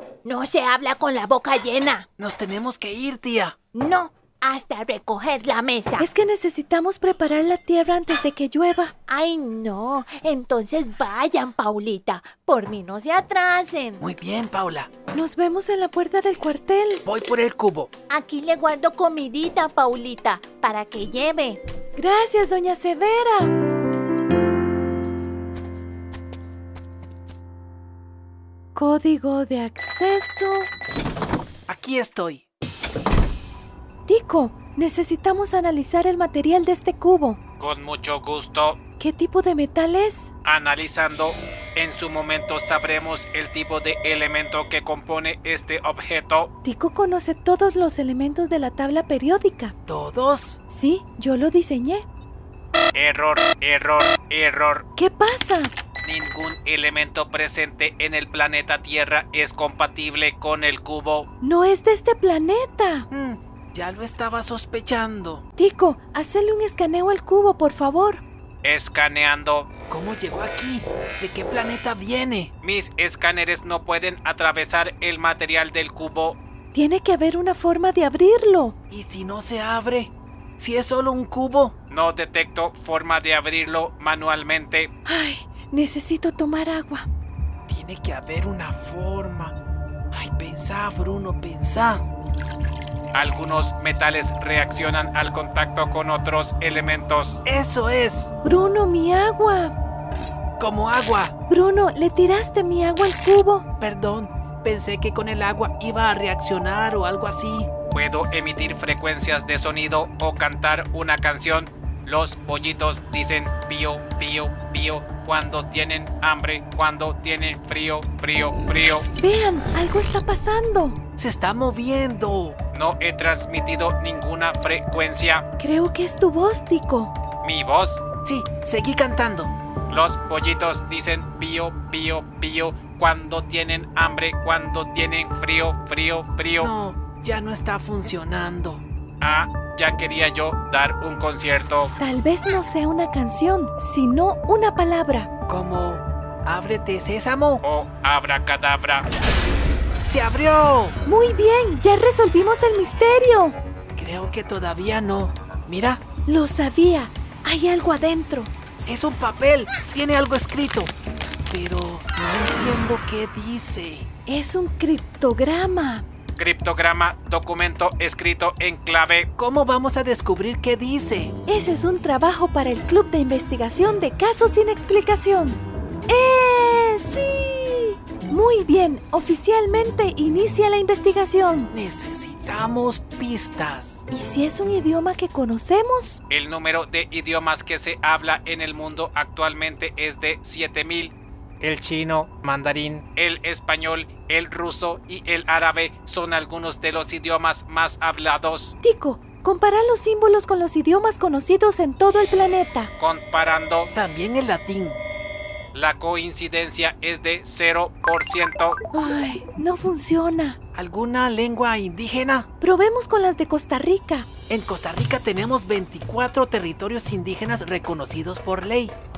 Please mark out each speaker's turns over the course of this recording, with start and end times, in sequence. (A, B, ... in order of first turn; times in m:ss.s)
0:00.2-0:02.1 A
0:02.2-0:03.6 B
0:03.7-0:06.1 A
0:06.0-0:08.9 C
0:09.1-0:14.0 A
0:14.0-0:14.9 B
0:15.1-0:17.0 C
0:17.0-0:17.9 B
0:18.1-0:21.6 A
0:22.0-0:23.5 C
0:28.7-0:30.7 C
0:31.7-0:32.4 B
0:34.1-0:37.4 C
0:37.6-0:38.8 D
0:39.0-0:40.3 C
0:40.4-0:46.5 D
0:46.6-0:49.7 C
0:49.9-0:50.6 B
0:50.7-0:52.0 C
0:52.9-0:54.8 D
0:55.0-0:55.7 C
0:56.0-1:01.3 D
1:01.4-1:03.1 C
1:03.1-1:05.4 B
1:05.6-1:08.2 C
1:08.6-1:09.7 D
1:09.9-1:12.5 B
1:12.6-1:16.4 D
1:16.7-1:18.8 C
1:18.9-1:21.7 B
1:21.9-1:24.9 D
1:25.0-1:27.1 C
1:27.7-1:29.5 B
1:30.1-1:32.0 B
1:33.1-1:37.4 D
1:37.4-1:38.3 B
1:38.4-1:39.7 C
1:40.6-1:41.3 B
1:41.5-1:43.6 C
1:43.8-1:47.7 B
1:47.9-1:59.1 D
1:59.2-2:01.0 C
2:01.2-2:02.6 B
2:02.7-2:05.4 D
2:05.6-2:07.1 C
2:07.4-2:08.0 D
2:08.2-2:09.5 B
2:09.9-2:16.7 D
2:16.6-2:18.8 B
2:19.2-2:21.9 D
2:22.0-2:25.3 C
2:25.5-2:27.6 B
2:27.6-2:29.1 D
2:30.0-2:31.0 B
2:31.0-2:33.6 C
2:33.9-2:36.0 B
2:36.3-2:38.5 C
2:38.8-2:40.9 B
2:41.5-2:44.1 B
2:44.3-2:46.0 C
2:46.4-2:49.3 D
2:49.4-2:51.3 B
2:51.5-3:01.7 C
3:01.7-3:04.1 B
3:04.1-3:06.2 C
3:06.3-3:18.7 D
3:18.8-3:22.9 C
3:23.0-3:23.9 D
3:23.9-3:25.0 B
3:25.7-3:28.8 D
3:28.9-3:30.6 C
3:30.7-3:32.5 B
3:32.6-3:34.3 C
3:34.5-3:38.9 B